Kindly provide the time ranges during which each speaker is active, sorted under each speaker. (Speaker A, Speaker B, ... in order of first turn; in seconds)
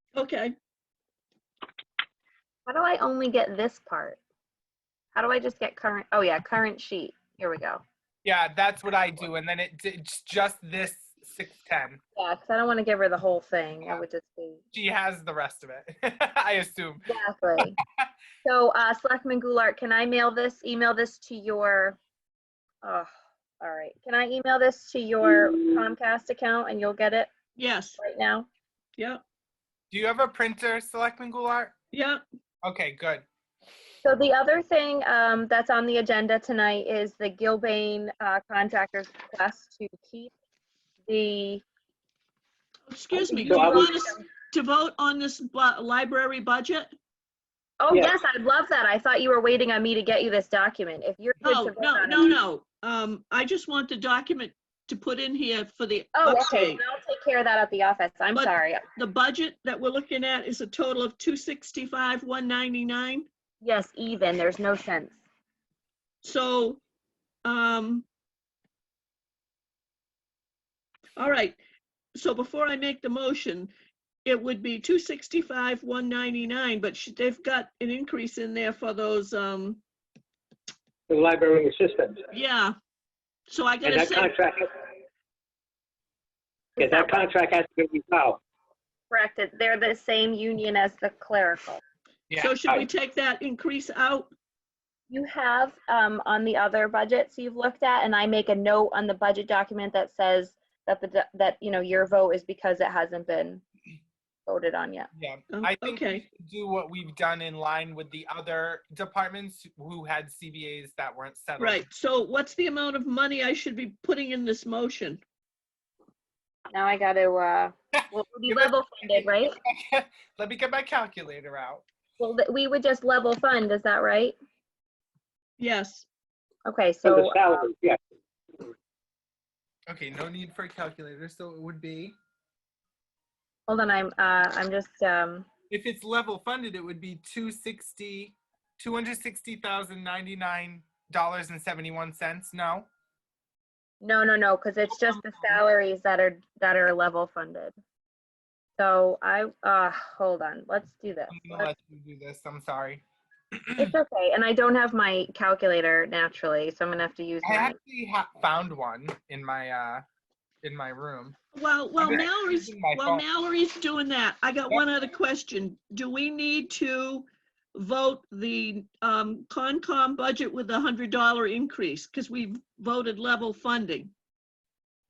Speaker A: 0.1-0.5, 27.6-28.0, 31.9-32.2, 42.9-46.9, 51.4-56.8, 58.3-63.2, 66.2-66.8, 67.4-68.0, 71.2-71.6, 72.2-73.7, 74.2-79.8, 82.3-82.7, 83.5-84.3, 92.4-94.3, 105.5-106.2, 111.6-115.2, 125.6-126.0, 161.5-174.1
Speaker B: 2.7-4.2, 5.1-7.8, 12.2-14.6, 17.1-17.8, 18.4-22.0, 22.8-27.3, 28.0-28.5, 34.0-40.3, 41.0-41.6, 43.2-44.2, 47.8-52.4, 56.1-58.8, 63.6-65.2, 86.8-87.3, 89.1-91.8, 95.1-103.6, 104.5-105.1, 116.7-119.5, 122.2-124.3, 126.7-127.4, 133.7-135.5, 144.0-147.7, 148.8-151.7, 153.8-157.8
Speaker C: 8.2-12.0, 14.7-17.0, 29.9-31.7, 32.6-33.2, 105.1-111.8, 118.0-121.8, 129.9-132.1, 135.7-142.9, 144.9-145.6, 151.3-153.0, 153.6-153.9, 157.4-160.0, 160.6-161.3, 162.0-163.2
Speaker D: 43.4-43.9, 81.1-82.2, 83.8-84.7, 86.8-88.4, 127.0-128.0